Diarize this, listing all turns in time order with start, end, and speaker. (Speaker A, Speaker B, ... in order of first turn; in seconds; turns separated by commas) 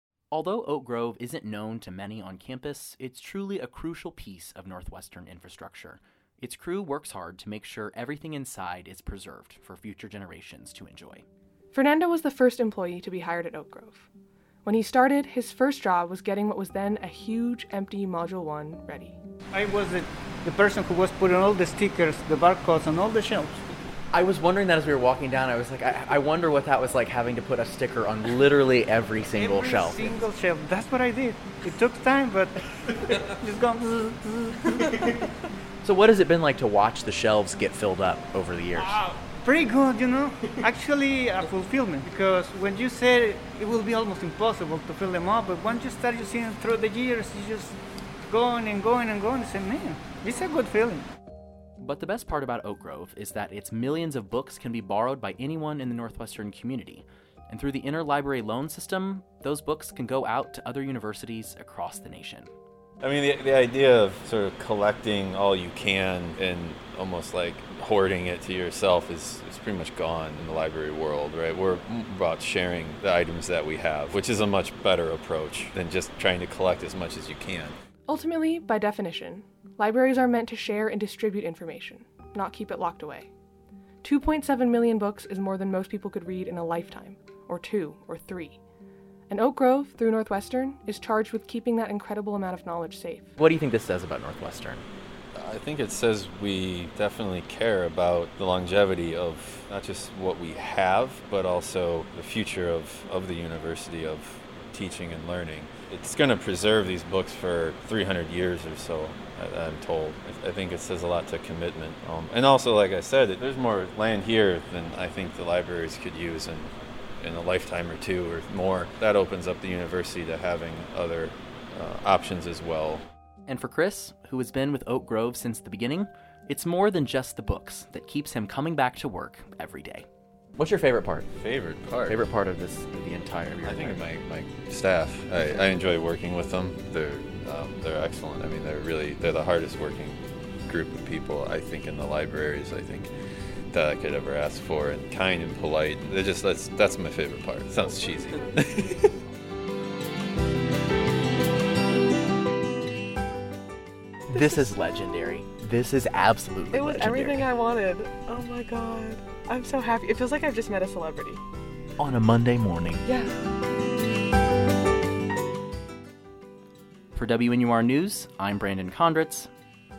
Speaker A: 0.3-11.2, Speaker B: 11.7-14.1, Speaker B: 14.7-19.2, Speaker C: 19.5-23.6, Speaker D: 24.1-30.1, Speaker C: 29.3-35.0, Speaker D: 35.8-38.9, Speaker C: 38.7-47.8, Speaker C: 48.3-51.1, Speaker A: 51.8-62.5, Speaker E: 63.0-77.8, Speaker B: 78.1-83.3, Speaker B: 84.0-88.6, Speaker B: 89.3-93.3, Speaker E: 95.4-123.0, Speaker A: 123.5-130.1, Speaker D: 130.6-131.2, Speaker E: 131.3-132.3, Speaker D: 132.1-133.8, Speaker E: 133.6-143.1, Speaker E: 143.7-149.1, Speaker F: 154.3-154.7, Speaker F: 156.7-161.4, Speaker D: 156.9-157.3, Speaker F: 163.0-163.3, Speaker A: 167.2-169.5